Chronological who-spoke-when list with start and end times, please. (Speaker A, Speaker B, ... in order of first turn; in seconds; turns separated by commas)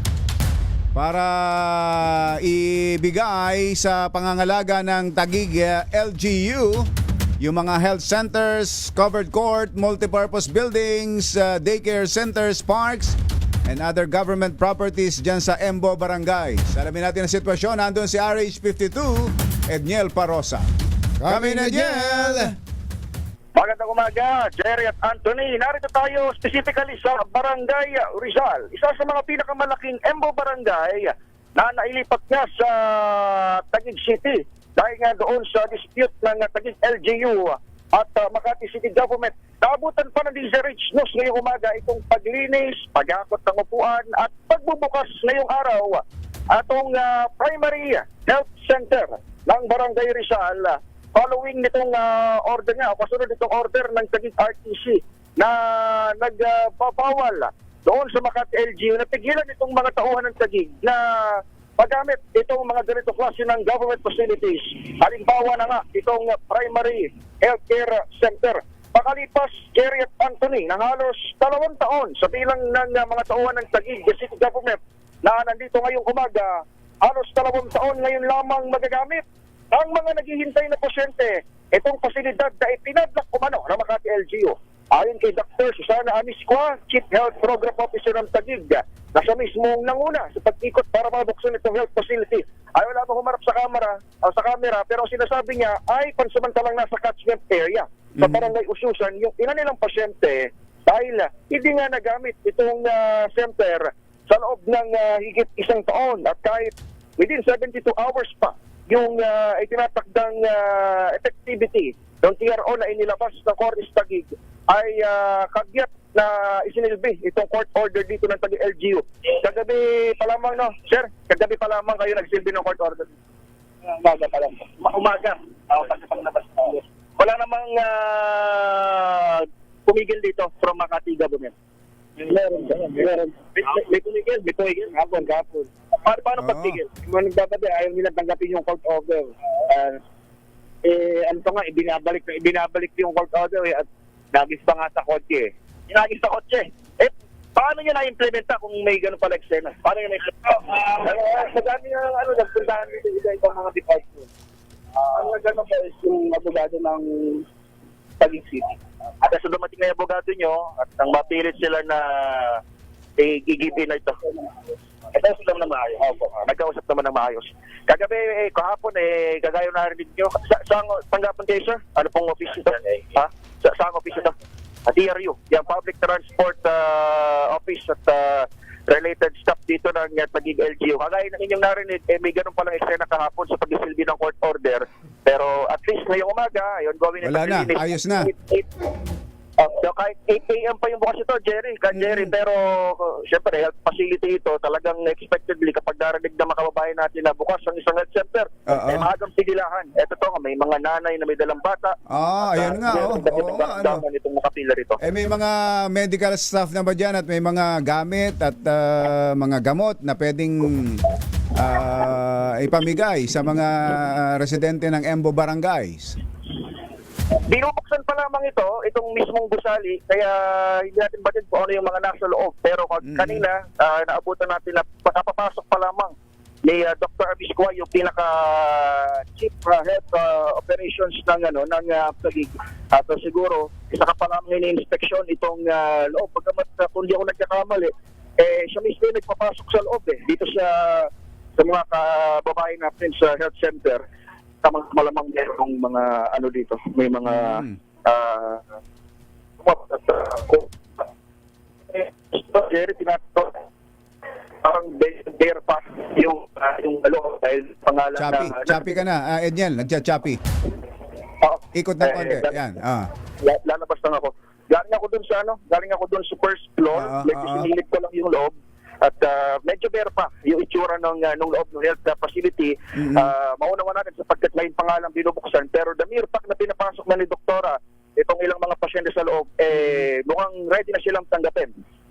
Speaker A: 0.9-6.9, Speaker A: 7.4-20.6, Speaker A: 21.2-22.5, Speaker B: 23.6-123.1, Speaker A: 98.2-98.5, Speaker B: 123.9-131.5, Speaker B: 132.2-139.9, Speaker A: 136.4-136.8, Speaker B: 140.9-154.2, Speaker B: 155.1-157.4, Speaker B: 158.2-162.6, Speaker B: 163.2-164.3, Speaker B: 165.1-174.3, Speaker B: 174.9-188.7, Speaker A: 187.2-188.3, Speaker B: 189.6-205.0, Speaker A: 191.9-192.3, Speaker A: 198.7-199.1, Speaker A: 202.1-204.0, Speaker A: 205.0-216.2, Speaker B: 217.5-226.1, Speaker A: 223.0-223.5, Speaker B: 226.7-244.0, Speaker B: 244.6-248.6, Speaker A: 247.2-247.8, Speaker B: 249.6-250.7, Speaker B: 251.9-253.6, Speaker B: 254.6-259.0, Speaker A: 258.2-260.4, Speaker B: 261.4-262.6, Speaker A: 261.7-263.1, Speaker B: 263.4-281.7, Speaker A: 266.9-267.7, Speaker A: 273.0-273.3